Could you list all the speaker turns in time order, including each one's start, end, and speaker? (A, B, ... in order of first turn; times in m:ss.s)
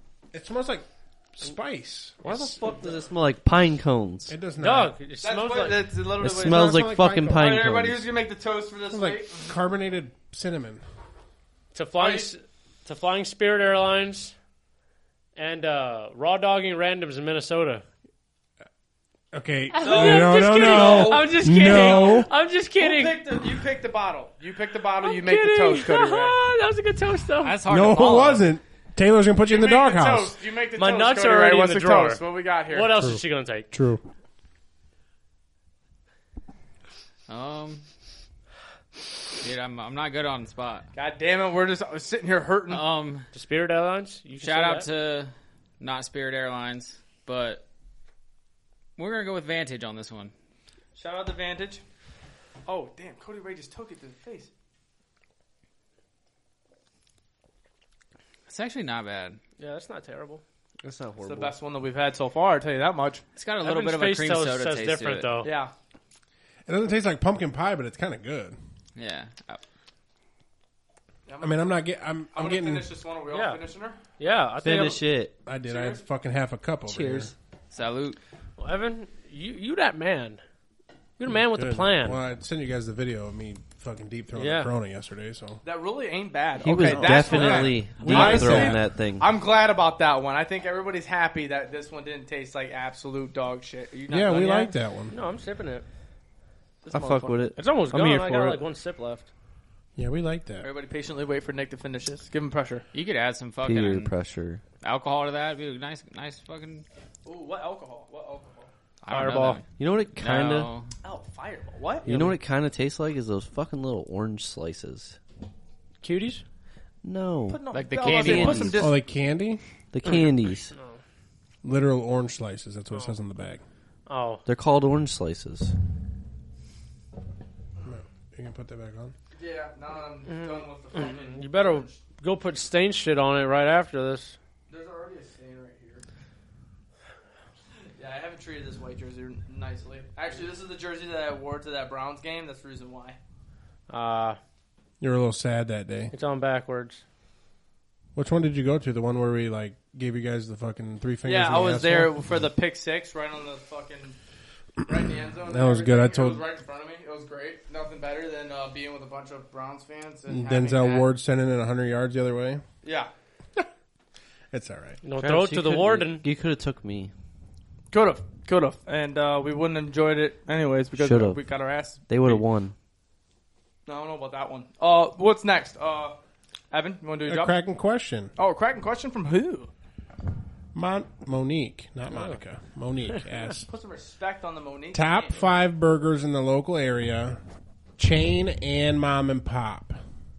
0:00.3-0:02.6 A
0:02.2-0:04.3 B
0:04.3-0:04.9 A
0:04.6-0:05.9 C
0:05.2-0:09.5 D
0:06.2-0:08.0 B
0:06.4-0:07.4 A
0:08.9-0:10.8 A
0:11.7-0:14.3 C
0:12.0-0:12.3 D
0:15.4-0:17.8 C
0:19.3-0:22.3 A
0:19.7-0:23.2 C
0:19.8-0:22.2 D
0:22.8-0:26.4 D
0:25.0-0:27.6 C
0:27.4-0:28.5 E
0:27.7-0:30.4 A
0:29.4-0:32.9 D
0:30.8-0:33.7 C
0:32.9-0:34.0 A
0:37.3-0:37.8 E
0:39.4-0:40.9 E
0:40.9-0:42.8 D
0:42.7-0:43.3 E
0:43.3-0:44.9 C
0:44.4-0:47.6 E
0:49.0-0:50.3 E
0:51.0-0:51.8 D
0:52.7-0:54.5 D
0:58.5-0:59.4 E
0:59.6-1:00.4 C
1:00.8-1:01.5 B
1:01.2-1:03.2 D
1:03.4-1:05.3 E
1:03.6-1:05.5 C
1:05.4-1:05.7 D
1:06.6-1:08.6 A
1:09.0-1:09.6 E
1:11.3-1:11.7 D
1:11.4-1:12.9 A
1:12.3-1:14.0 D
1:13.3-1:13.6 C
1:14.2-1:15.0 C
1:14.6-1:15.3 B
1:15.4-1:17.3 A
1:15.6-1:16.0 D
1:16.9-1:17.3 B
1:17.7-1:18.2 E
1:18.6-1:20.4 C
1:21.2-1:22.2 C
1:21.5-1:25.6 A
1:24.3-1:24.7 C
1:25.6-1:34.7 D
1:26.6-1:29.3 B
1:26.8-1:28.8 A
1:34.1-1:35.1 A
1:35.1-1:35.8 C
1:36.8-1:37.5 D
1:36.9-1:38.6 B
1:37.6-1:39.3 C
1:40.0-1:40.7 A
1:40.6-1:42.8 D
1:42.9-1:44.1 E
1:43.6-1:44.6 B
1:44.8-1:46.8 E
1:47.2-1:48.7 D
1:49.0-1:50.9 E
1:49.1-1:49.6 C
1:49.8-1:50.7 B
1:51.0-1:52.1 D
1:52.0-1:55.2 B
1:52.0-1:52.4 C
1:56.0-1:56.4 C
1:57.0-1:58.8 B
1:57.5-1:59.0 D
1:57.7-1:58.9 E
1:58.8-1:59.6 A
1:59.9-2:00.7 B
2:00.1-2:01.0 C
2:01.6-2:03.6 A
2:04.1-2:04.4 C
2:04.4-2:05.7 B
2:07.8-2:09.1 A
2:09.4-2:12.0 D
2:10.3-2:14.4 C
2:14.7-2:16.0 D
2:18.0-2:23.2 D
2:23.9-2:24.4 C
2:25.0-2:26.1 A
2:26.1-2:27.0 C
2:28.1-2:32.2 A
2:31.2-2:34.2 D
2:34.8-2:41.1 D
2:35.4-2:36.4 A
2:40.3-2:42.6 A
2:42.8-2:43.1 D
2:44.5-2:45.0 A
2:45.0-2:46.2 C
2:45.2-2:47.1 B
2:47.9-2:52.4 D
2:50.9-2:51.4 B
2:52.1-2:52.7 B
2:53.9-2:56.2 D
2:56.7-2:57.5 D
2:57.2-2:58.3 A
2:58.4-2:59.7 D
3:00.7-3:03.6 A
3:03.6-3:05.4 D
3:04.9-3:07.4 A
3:08.0-3:10.0 A